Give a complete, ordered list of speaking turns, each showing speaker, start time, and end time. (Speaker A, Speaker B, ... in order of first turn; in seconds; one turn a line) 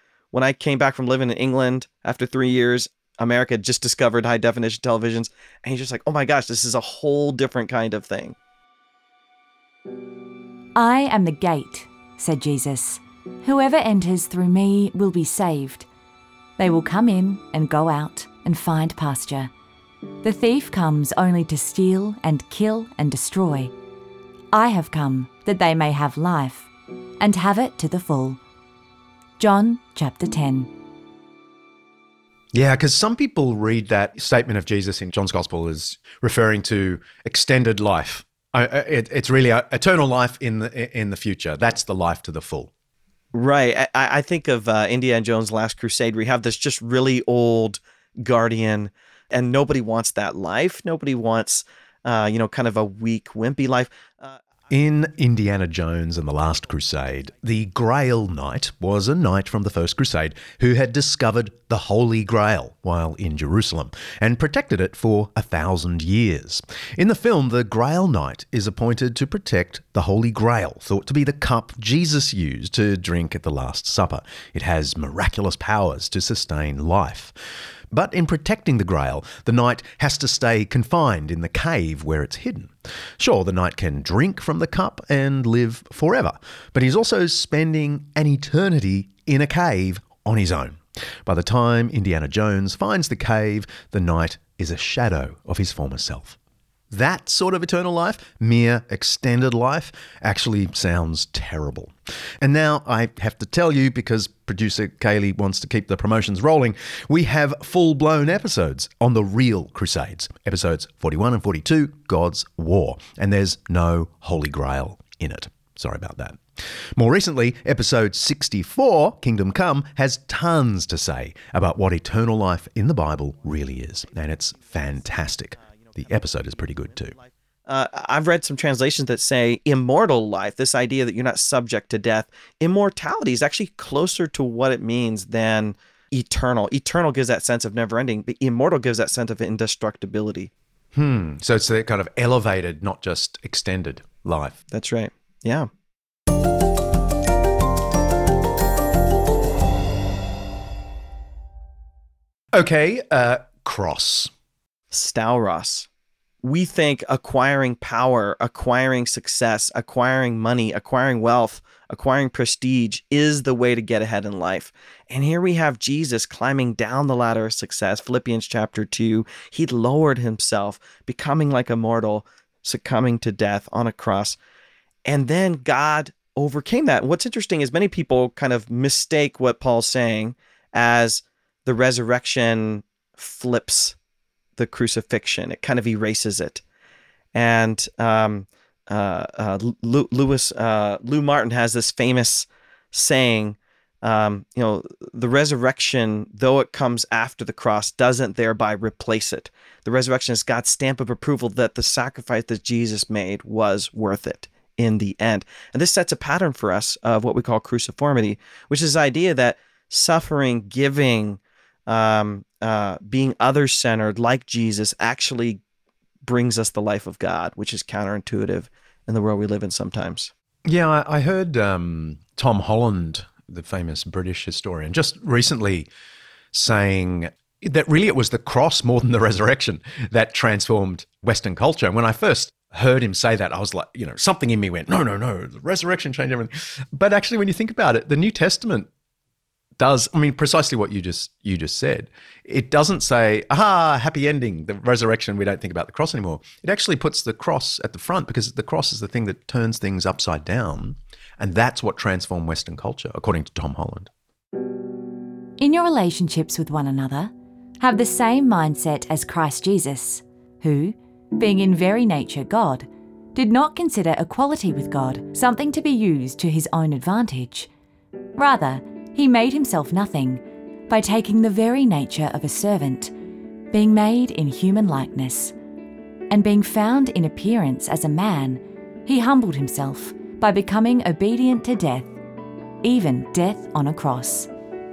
Speaker A: 0.3-8.4
Speaker B: 10.8-15.9
Speaker B: 16.6-19.5
Speaker B: 20.2-23.7
Speaker B: 24.5-26.7
Speaker B: 27.2-28.4
Speaker B: 29.4-30.7
Speaker C: 32.5-42.7
Speaker A: 43.3-54.4
Speaker C: 54.7-77.3
Speaker C: 77.9-96.4
Speaker C: 96.9-116.4
Speaker C: 117.0-127.2
Speaker A: 125.9-126.4
Speaker A: 127.0-140.5
Speaker C: 140.9-144.6
Speaker A: 144.7-145.7
Speaker C: 152.5-154.3
Speaker A: 154.9-155.9
Speaker A: 156.4-174.4
Speaker A: 175.1-183.9
Speaker A: 184.6-186.6
Speaker A: 187.3-215.6
Speaker A: 216.2-220.3
Speaker C: 220.7-225.9
Speaker C: 226.5-238.9
Speaker C: 239.8-254.1
Speaker B: 255.6-267.7
Speaker B: 268.4-273.1
Speaker B: 273.7-275.5
Speaker B: 276.3-282.1
Speaker B: 282.8-284.5